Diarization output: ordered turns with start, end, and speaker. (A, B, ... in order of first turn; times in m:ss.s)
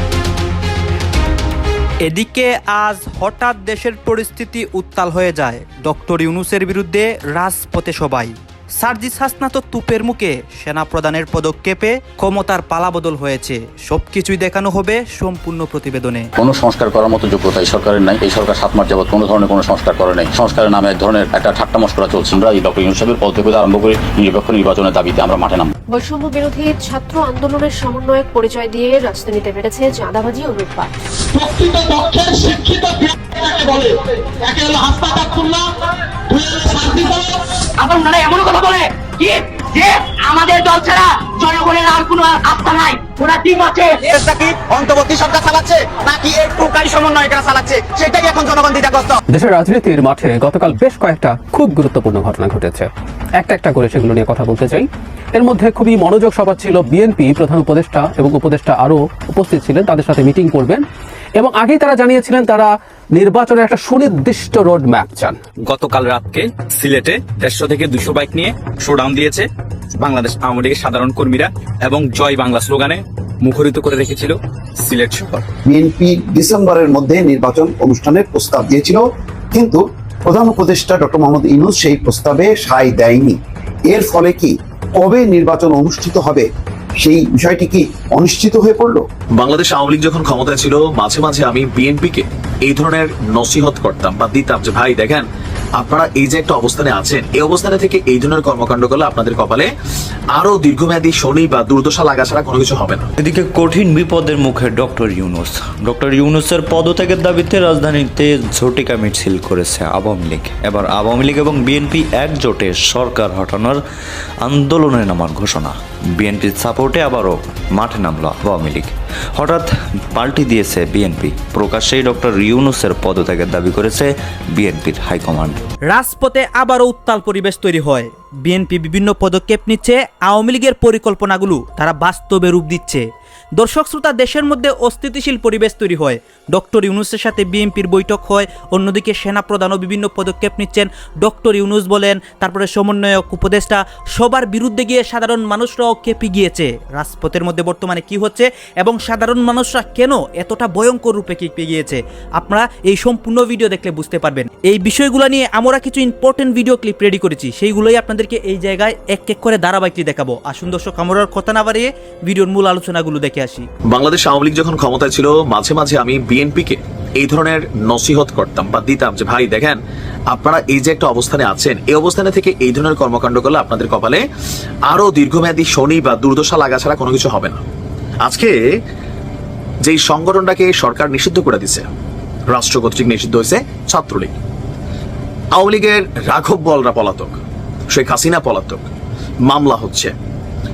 0:02.0-0:16.3 A
0:16.4-0:25.7 B
0:25.9-0:30.9 C
0:31.4-0:35.6 D
0:36.4-0:36.9 D
0:36.9-0:37.2 E
0:37.8-0:44.0 E
0:44.1-0:49.2 F
0:49.3-1:00.8 G
1:01.4-1:05.4 G
1:05.6-1:09.5 H
1:10.0-1:15.5 H
1:15.7-1:26.5 I
1:27.0-1:29.1 I
1:29.4-1:35.3 J
1:35.8-1:39.7 J
1:40.3-1:43.1 J
1:43.2-1:53.8 K
1:54.4-2:05.6 K
2:05.9-2:13.0 A
2:13.6-2:43.7 A
2:43.9-2:49.8 J
2:50.3-2:54.2 J
2:54.9-2:57.6 J
2:58.2-2:58.6 J
2:59.8-3:01.9 J
3:02.5-3:04.3 J
3:05.5-3:07.4 J
3:07.9-3:08.9 J
3:09.5-3:10.1 J